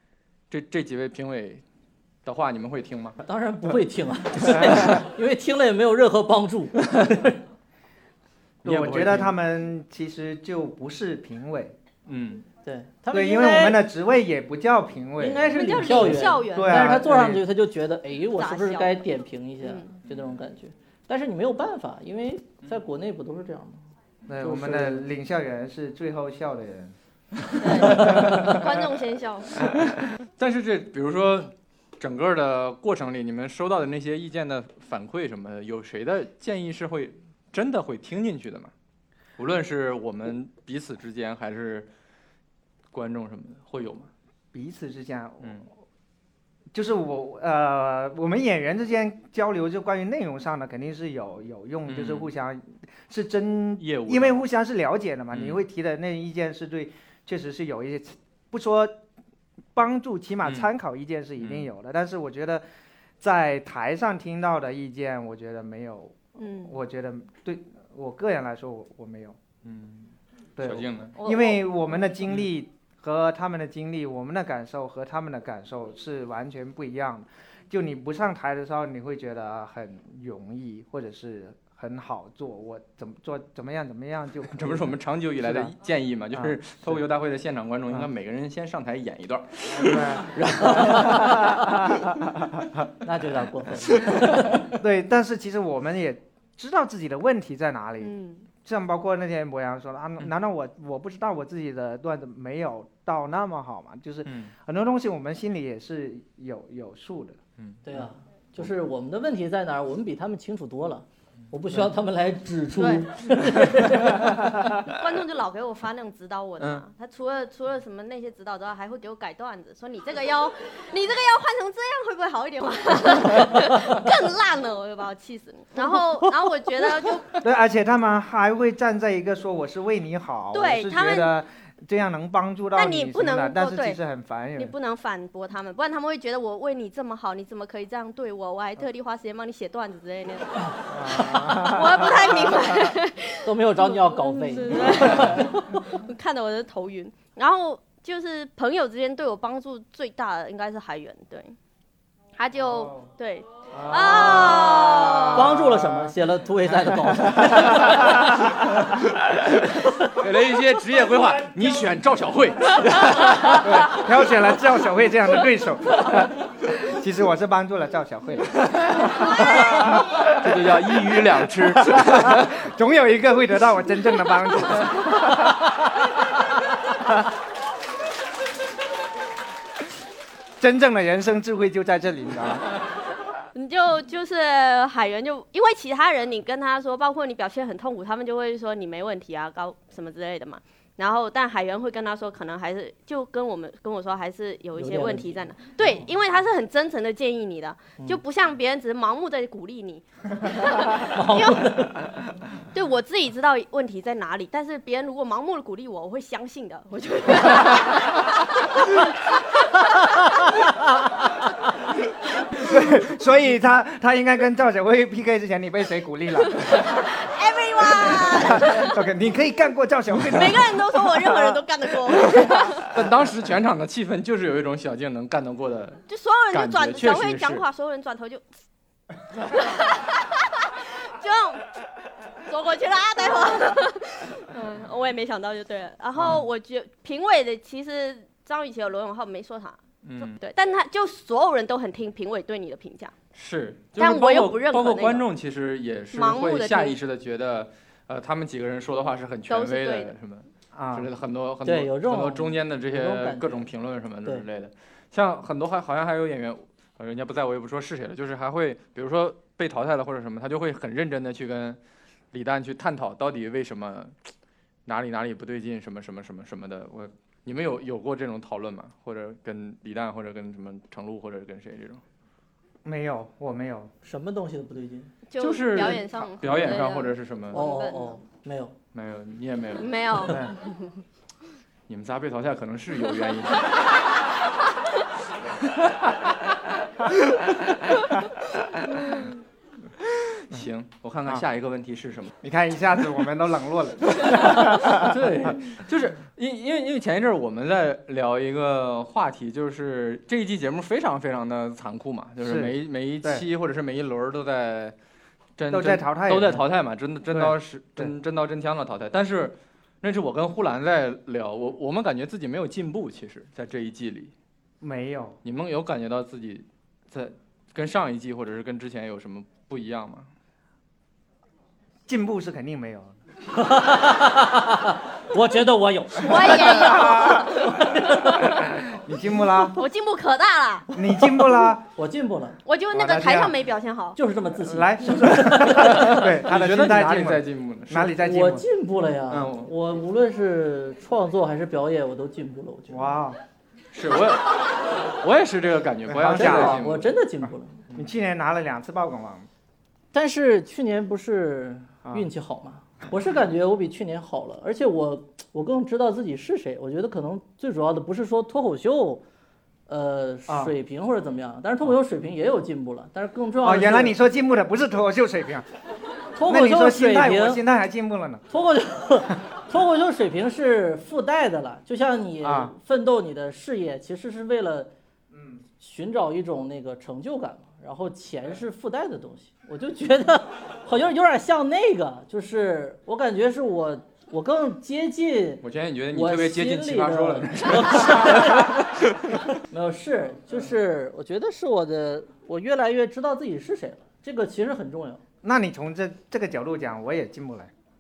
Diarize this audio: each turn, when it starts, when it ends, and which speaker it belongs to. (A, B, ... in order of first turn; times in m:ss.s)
0:00.5-0:01.6 A
0:02.2-0:03.2 A
0:03.2-0:07.4 B
0:04.6-0:04.9 A
0:08.6-0:09.4 A
0:08.6-0:11.8 C
0:12.1-0:12.4 A
0:12.6-0:13.8 B
0:13.1-0:17.4 C
0:15.2-0:23.8 B
0:15.5-0:17.0 D
0:18.3-0:19.0 D
0:19.6-0:19.9 D
0:24.3-0:26.9 C
0:24.4-0:25.0 B
0:27.6-0:29.7 D
0:27.8-0:28.6 C
0:29.6-0:38.7 A
0:39.4-0:41.9 A
0:42.9-0:44.1 A
0:44.5-0:45.6 C
0:46.7-0:59.0 C
0:51.9-0:52.3 A
0:53.8-0:54.4 A
0:55.3-0:55.6 A
0:59.7-1:02.6 C
1:01.4-1:01.7 A
1:03.2-1:09.4 C
1:06.4-1:06.8 D
1:09.6-1:11.1 A
1:10.6-1:25.7 C
1:11.2-1:11.6 D
1:24.5-1:32.1 A
1:26.3-1:27.0 C
1:29.7-1:31.7 C
1:33.0-1:34.6 B
1:34.0-1:34.6 A
1:34.7-1:47.4 C
1:38.0-1:38.4 D
1:44.3-1:44.5 A
1:47.6-1:48.0 A
1:47.8-1:54.7 B
1:52.8-1:53.1 D
1:54.8-2:07.4 D
1:56.6-1:56.8 A
2:07.4-2:14.7 C
2:10.5-2:11.3 D
2:12.8-2:14.0 D
2:14.6-2:31.6 D
2:20.9-2:22.9 C
2:23.4-2:25.9 B
2:32.4-2:35.5 D
2:32.6-2:33.1 C
2:33.7-2:36.1 C
2:35.3-2:38.4 B
2:37.4-2:37.9 C
2:40.0-2:44.1 A
2:43.5-2:50.2 C
2:48.6-2:52.6 A
2:51.8-2:55.7 C
3:00.6-3:02.7 C
3:03.5-3:21.7 D
3:14.8-3:15.4 B
3:20.8-3:22.1 B
3:22.7-3:30.6 D
3:32.5-3:36.9 C
3:36.5-3:39.0 D
3:37.8-3:42.7 C
3:40.2-3:42.9 D
3:42.7-3:47.6 A
3:46.1-3:48.4 D
3:49.4-3:51.7 D
3:52.4-4:03.1 D
3:56.2-3:56.4 A
4:00.0-4:00.4 A
4:03.3-4:21.8 A
4:04.0-4:05.3 D
4:06.1-4:07.0 D
4:09.5-4:10.1 D
4:10.7-4:11.1 C
4:11.6-4:13.7 B
4:22.3-4:24.2 A
4:24.9-4:32.0 A
4:32.8-4:33.9 C
4:34.0-4:35.1 B
4:35.3-4:38.2 D
4:35.4-4:37.6 A
4:37.5-4:38.8 B
4:38.9-4:40.3 A
4:39.8-4:41.0 D
4:40.3-4:40.5 C
4:41.9-4:43.7 A
4:50.3-4:52.3 A
4:52.4-4:55.2 C
4:54.2-5:05.0 A
5:02.4-5:03.4 C
5:05.6-5:14.3 A
5:05.7-5:06.6 C
5:07.3-5:08.1 C
5:14.8-5:15.4 C
5:15.4-5:20.3 A
5:22.1-5:23.1 C
5:23.5-5:28.5 B
5:26.2-5:28.5 D
5:26.6-5:27.6 C
5:28.4-5:29.8 C
5:29.7-5:30.9 D
5:30.9-5:31.8 C
5:31.9-5:32.6 B
5:32.6-5:34.2 D
5:32.9-5:33.6 C
5:34.2-5:36.2 B
5:34.6-5:38.6 C
5:35.7-5:38.2 A
5:38.2-5:43.1 B
5:39.3-5:39.7 A
5:42.9-5:43.4 C
5:43.9-5:47.1 A
5:46.1-5:46.8 C
5:46.3-5:47.8 B
5:47.9-5:49.5 C
5:50.1-5:59.2 B
5:59.9-6:04.2 B
6:00.5-6:00.7 C
6:03.6-6:05.6 C
6:06.3-6:07.6 B
6:06.4-6:08.4 C
6:08.5-6:14.9 B
6:12.4-6:12.7 C
6:15.3-6:15.6 C
6:15.8-6:28.9 B
6:25.6-6:28.8 A
6:29.6-6:35.2 B
6:35.4-6:37.7 C